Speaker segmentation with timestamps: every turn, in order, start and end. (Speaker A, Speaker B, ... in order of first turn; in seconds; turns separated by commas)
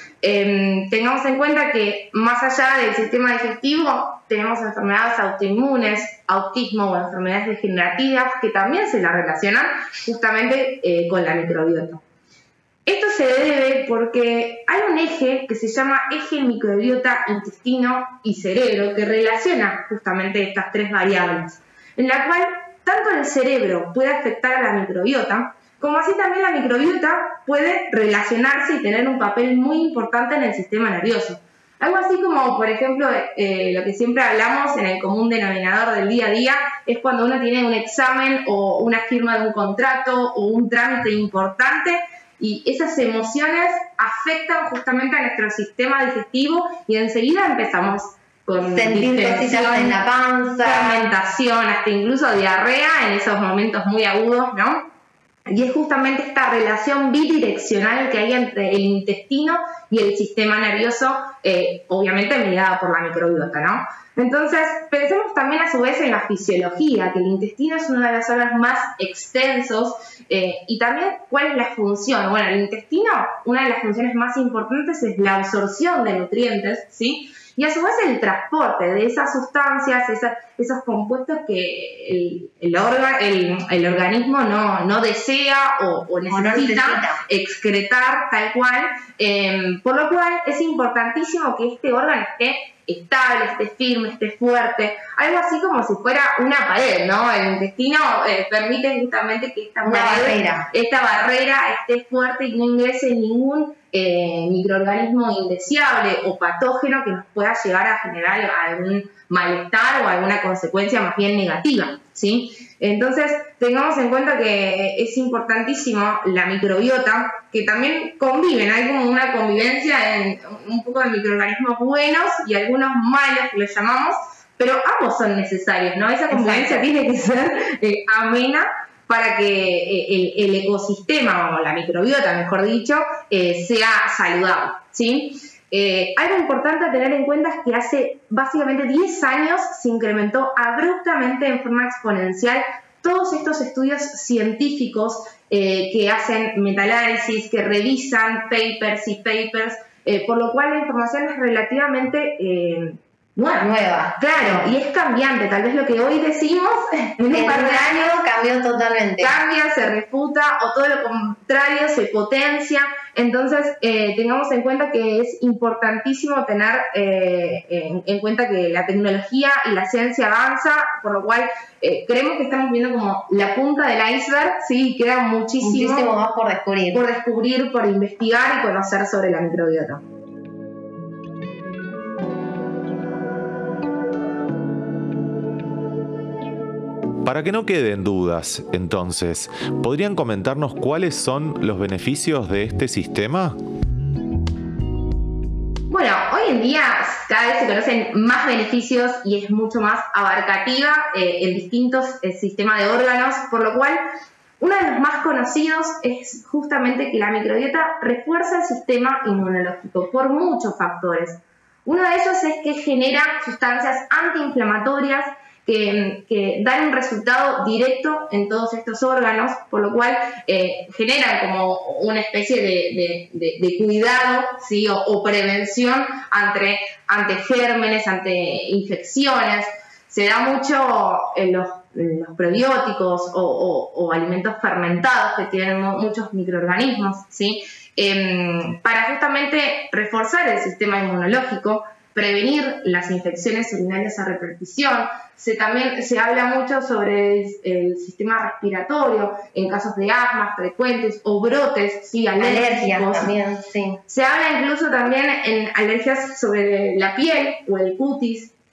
Speaker A: 0.2-12.0, Speaker A: 12.9-50.0, Speaker B: 48.6-51.0, Speaker A: 50.6-54.9, Speaker A: 55.5-158.2, Speaker B: 86.3-87.2, Speaker B: 99.8-100.7, Speaker B: 126.3-126.8, Speaker B: 153.6-154.6, Speaker B: 157.3-159.3, Speaker A: 159.2-176.1, Speaker B: 175.6-177.1, Speaker A: 176.9-180.0, Speaker C: 187.2-193.6, Speaker A: 195.9-204.0, Speaker A: 204.6-253.3, Speaker B: 252.4-254.0, Speaker A: 254.1-258.5